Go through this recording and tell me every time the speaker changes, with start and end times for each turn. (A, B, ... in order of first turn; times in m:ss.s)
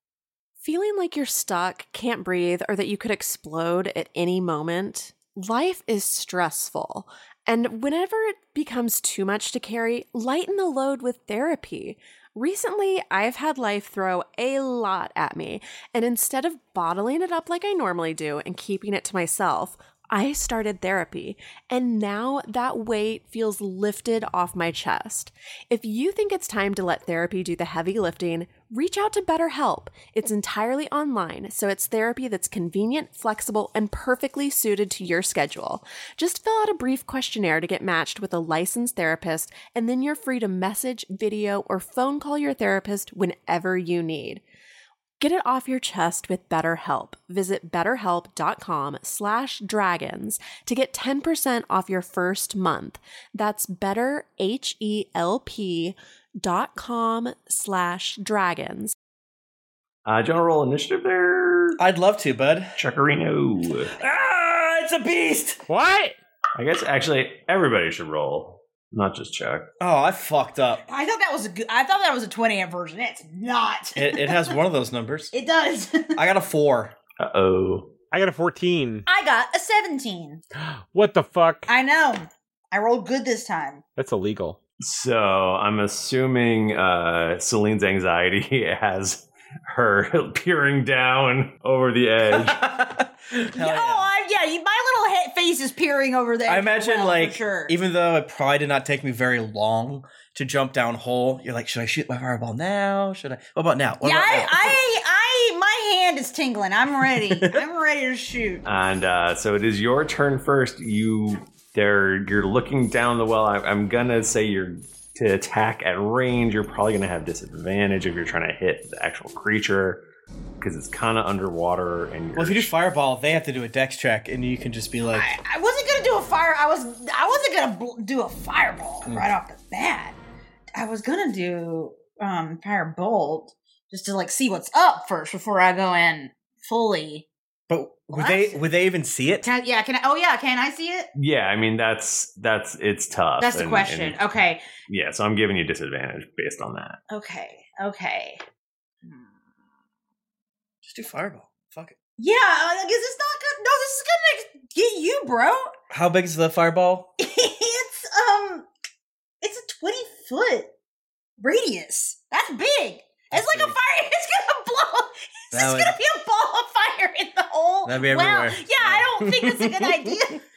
0:00.6-0:44.4 A
0:45.2-0:58.9 A
1:00.0-1:01.8 B
1:01.8-1:02.7 C
1:02.8-1:03.9 B
1:04.0-1:05.6 C
1:05.7-1:06.2 D
1:06.6-1:09.7 B
1:09.8-1:10.8 C
1:10.9-1:14.6 E
1:14.0-1:15.3 C
1:15.3-1:16.2 E
1:16.2-1:16.9 C
1:17.2-1:17.9 B
1:18.1-1:19.0 D
1:19.1-1:20.4 E
1:20.6-1:21.7 D
1:21.7-1:23.8 E
1:24.0-1:24.6 D
1:24.8-1:32.6 B
1:32.3-1:34.1 C
1:33.6-1:37.7 E
1:36.5-1:44.8 C
1:44.0-1:48.6 E
1:47.3-1:47.6 C
1:48.6-2:00.0 B
2:00.6-2:02.7 B
2:02.4-2:05.3 C
2:05.1-2:10.2 E
2:10.8-2:17.3 E
2:17.7-2:19.5 C
2:18.1-2:18.6 E
2:19.4-2:21.1 E
2:21.2-2:24.3 B
2:23.4-2:24.6 E
2:24.9-2:27.0 B
2:27.1-2:28.4 E
2:29.0-2:29.3 E
2:30.8-2:32.0 C
2:32.2-2:35.7 E
2:35.9-2:37.1 C
2:37.2-2:38.7 E
2:39.4-2:40.7 E
2:41.4-2:50.4 E
2:43.3-2:43.8 C
2:45.5-2:46.0 C
2:47.8-2:50.1 C